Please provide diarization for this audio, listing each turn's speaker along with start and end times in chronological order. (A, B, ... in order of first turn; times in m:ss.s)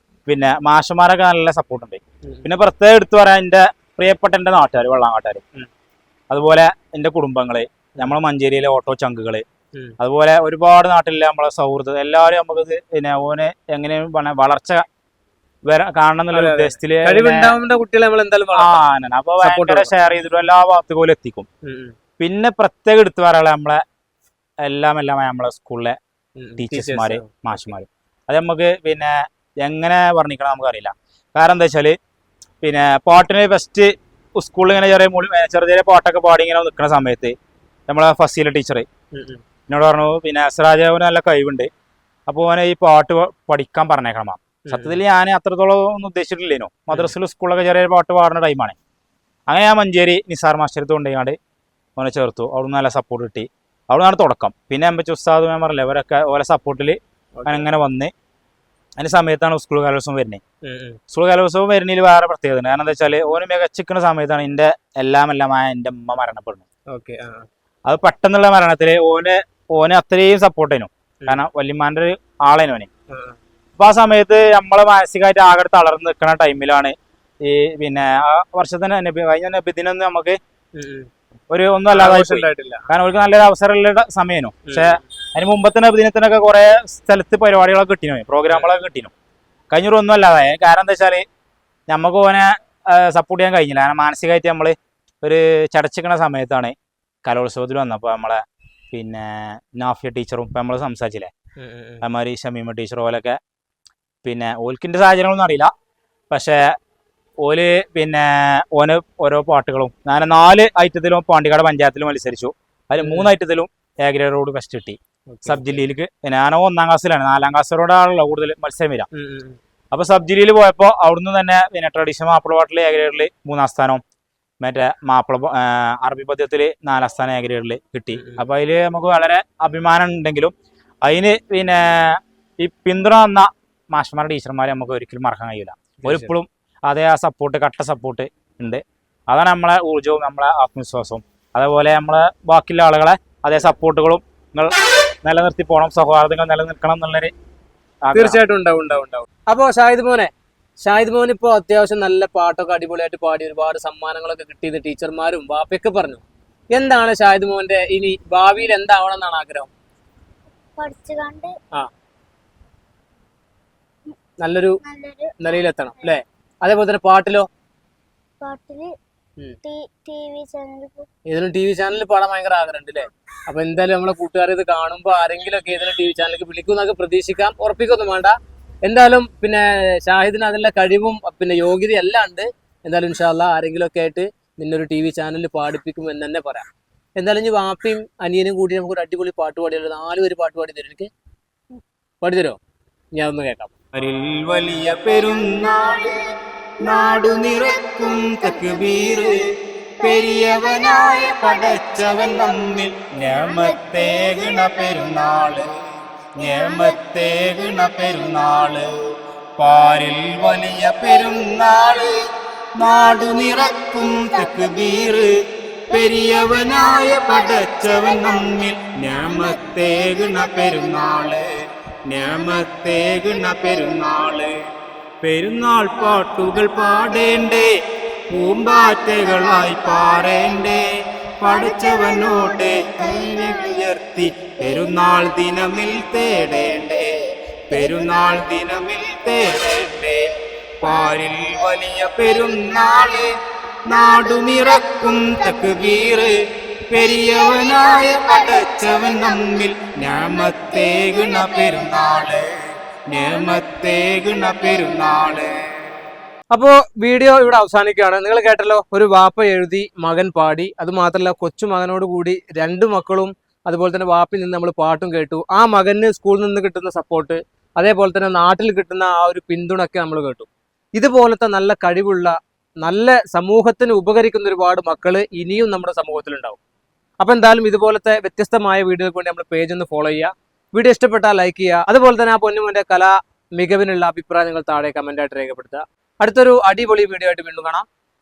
0:00.3-0:05.4 A
0:06.3-0:09.4 A
0:10.0-0:14.8 A
0:15.6-0:17.6 A
0:16.3-0:18.8 B
0:18.5-0:21.5 A
0:19.4-0:19.9 B
0:21.6-0:21.9 B
0:22.2-0:23.8 A
0:24.6-0:26.0 A
0:26.4-0:27.7 B
0:26.6-0:32.0 A
0:32.6-0:37.3 A
0:37.9-0:38.9 A
0:39.1-0:39.4 B
0:39.7-0:41.7 A
0:42.3-0:48.8 A
0:44.7-0:45.0 B
0:49.5-0:51.4 A
0:52.0-0:58.1 A
0:57.4-0:57.7 B
0:59.0-1:00.4 A
1:00.6-1:01.0 B
1:01.1-1:06.6 A
1:06.9-1:07.5 B
1:07.8-1:12.9 A
1:13.1-1:13.4 B
1:13.8-1:20.4 A
1:20.8-1:21.1 B
1:21.5-1:29.1 A
1:21.9-1:22.8 B
1:24.7-1:25.0 B
1:29.7-1:31.2 A
1:31.9-1:36.7 A
1:37.2-1:41.3 A
1:41.6-1:42.0 B
1:42.0-1:43.4 A
1:44.2-1:45.7 A
1:46.3-1:46.7 A
1:47.4-1:59.1 A
1:53.0-1:53.3 B
1:55.3-1:55.8 B
1:59.1-1:59.6 B
1:59.9-2:04.0 A
2:04.6-2:10.5 A
2:08.1-2:08.4 B
2:11.0-2:27.3 A
2:16.0-2:16.3 B
2:28.0-2:28.4 A
2:28.1-2:30.3 B
2:30.8-2:36.2 B
2:36.7-2:39.7 B
2:40.8-2:41.5 C
2:44.4-2:44.8 B
2:44.8-2:45.6 C
2:45.4-2:47.5 B
2:48.4-2:48.9 C
2:49.6-2:51.1 C
2:51.3-3:06.7 B
3:07.2-3:11.1 B
3:12.2-3:12.6 B
3:13.1-3:13.7 B
3:13.9-3:16.1 A
3:15.1-3:16.3 C
3:16.8-3:19.4 A
3:16.8-3:19.4 C
3:20.0-3:25.6 C
3:20.0-3:25.8 A
3:26.4-3:29.0 A
3:26.4-3:28.9 C
3:29.6-3:35.3 A
3:31.0-3:35.2 C
3:35.9-3:41.3 C
3:35.9-3:41.5 A
3:42.1-3:44.5 A
3:42.2-3:42.6 C
3:43.4-3:44.3 C
3:45.2-3:47.7 A
3:46.0-3:47.4 C
3:48.3-3:50.9 A
3:48.5-3:50.9 C
3:51.4-3:57.2 A
3:51.4-4:00.1 C
3:57.7-4:03.3 A
4:00.8-4:03.3 C
4:03.8-4:06.4 A
4:03.9-4:06.2 C
4:06.9-4:12.5 A
4:06.9-4:12.3 C
4:13.1-4:15.6 A
4:13.1-4:15.4 C
4:16.5-4:36.6 B
4:37.2-4:47.8 B